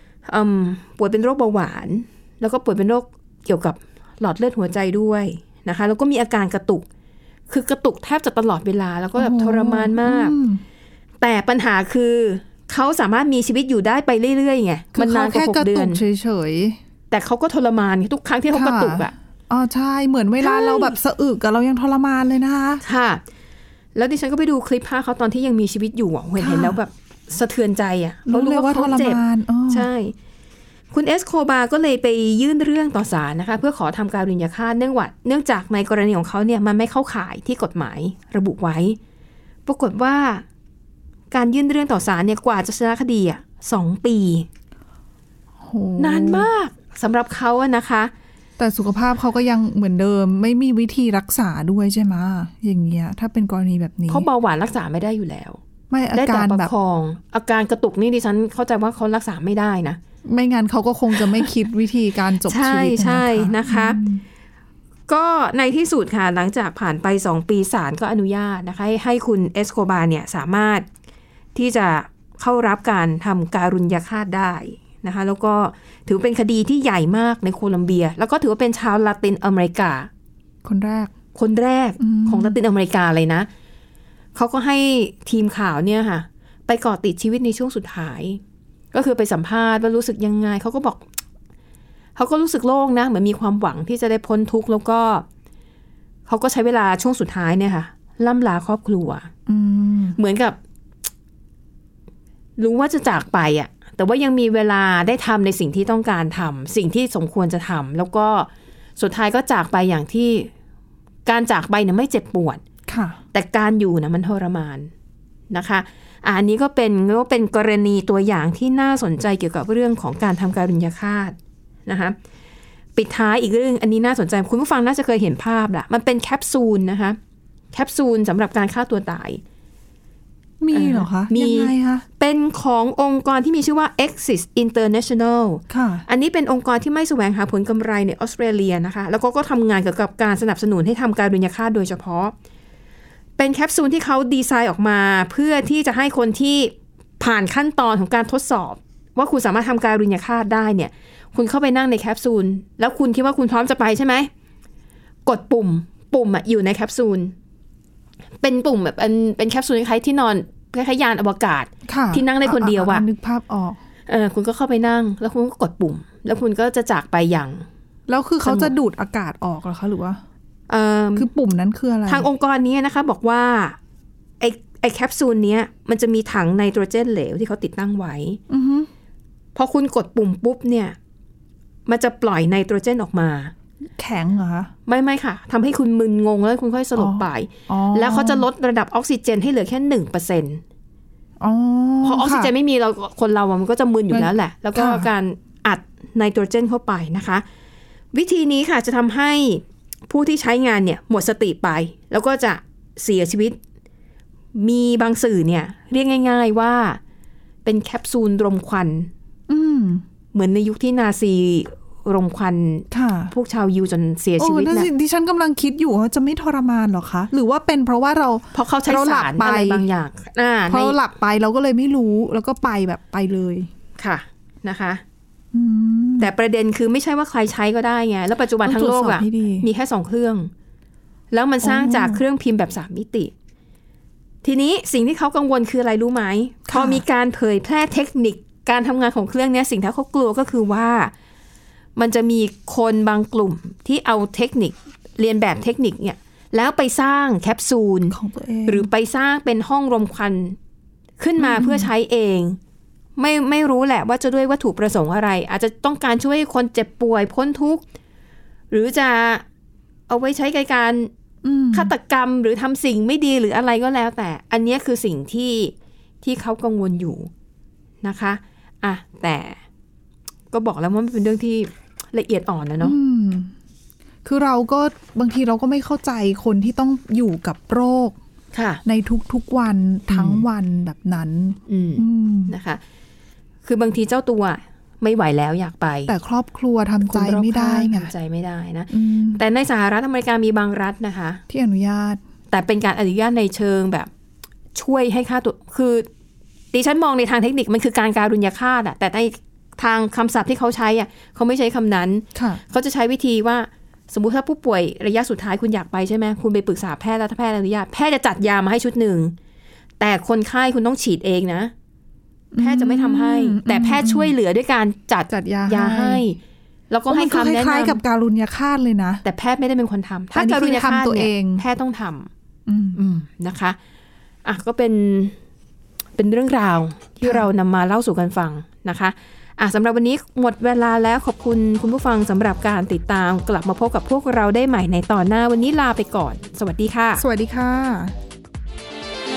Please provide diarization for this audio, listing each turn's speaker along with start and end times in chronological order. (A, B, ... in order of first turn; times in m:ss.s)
0:00.3-0:06.8 A
0:07.5-0:10.3 A
0:09.2-0:10.6 B
0:11.2-0:16.0 A
0:15.0-0:16.8 B
0:17.1-0:19.1 A
0:18.5-0:22.8 B
0:20.4-0:21.0 A
0:22.8-0:23.2 A
0:24.0-0:30.2 A
0:26.4-0:26.8 B
0:28.3-0:29.9 B
0:30.9-0:39.0 A
0:39.7-0:40.4 A
0:41.3-0:44.5 A
0:45.6-0:46.5 B
0:46.0-0:48.1 A
0:48.6-0:54.3 B
0:54.1-0:55.6 A
0:55.9-0:56.7 B
0:56.1-1:00.0 A
1:00.2-1:04.2 B
1:02.5-1:04.0 A
1:05.1-1:10.8 A
1:11.6-1:20.1 A
1:20.6-1:21.1 B
1:21.4-1:23.5 A
1:22.0-1:22.6 B
1:24.4-1:28.4 A
1:28.9-1:31.0 A
1:32.2-1:35.2 A
1:36.3-1:39.3 A
1:39.5-1:40.2 B
1:40.2-1:40.6 A
1:42.6-1:50.5 A
1:51.3-1:52.6 A
1:52.9-1:53.2 B
1:53.3-1:54.9 A
1:55.5-2:01.4 A
2:01.9-2:02.2 A
2:03.0-2:07.2 A
2:07.7-2:09.4 A
2:10.6-2:12.0 B
2:10.7-2:22.3 A
2:15.7-2:16.0 B
2:23.4-2:34.3 A
2:35.3-2:37.4 A
2:38.4-2:43.0 A
2:41.9-2:43.8 B
2:44.1-2:47.7 A
2:48.1-2:50.2 B
2:48.4-2:48.7 A
2:50.7-2:51.3 A
2:51.2-2:52.3 B
2:52.1-2:53.8 A
2:54.4-2:58.4 A
2:58.5-2:58.9 B
2:59.6-3:01.0 A
3:01.9-3:03.5 A
3:03.9-3:04.7 B
3:04.9-3:10.6 A
3:07.0-3:08.5 B
3:11.4-3:12.5 B
3:12.0-3:17.4 A
3:14.1-3:15.1 B
3:18.1-3:23.6 A
3:24.6-3:27.0 A
3:27.6-3:29.1 A
3:29.5-3:30.0 B
3:30.3-3:34.9 A
3:32.9-3:33.3 B
3:34.4-3:39.8 B
3:38.5-3:41.0 A
3:40.7-3:43.7 B
3:44.0-3:45.0 A
3:45.5-3:46.3 B
3:46.2-3:50.5 A
3:48.6-3:49.7 B
3:51.3-3:53.3 A
3:51.6-3:52.2 B
3:54.4-4:01.1 A
3:56.7-3:57.0 B
4:02.0-4:08.2 A
4:08.1-4:08.9 B
4:08.7-4:10.6 A
4:11.2-4:12.6 A
4:11.4-4:11.9 B
4:13.2-4:17.8 A
4:18.7-4:19.4 A
4:20.1-4:21.1 A
4:21.4-4:21.9 B
4:21.7-4:27.3 A
4:28.0-4:29.6 A
4:30.5-4:33.0 A
4:32.8-4:33.5 B
4:34.2-4:38.2 B
4:38.5-4:38.8 A
4:38.8-4:42.5 B
4:40.1-4:40.4 A
4:41.7-4:42.8 A
4:43.6-4:46.1 A
4:46.1-4:48.1 B
4:47.0-4:51.4 A
4:48.9-4:49.4 B
4:51.5-4:52.2 B
4:52.5-4:54.1 A
4:54.8-4:56.1 A
4:56.7-5:09.4 A
5:02.4-5:02.6 B
5:10.0-5:11.7 A
5:12.5-5:14.3 B
5:12.6-5:16.4 A
5:15.3-5:16.2 B
5:16.9-5:18.0 A
5:17.1-5:19.2 B
5:19.2-5:22.3 A
5:20.3-5:21.6 B
5:22.7-5:23.1 B
5:23.0-5:23.8 A
5:24.4-5:25.4 A
5:26.2-5:37.2 A
5:27.2-5:27.5 B
5:37.2-5:38.2 B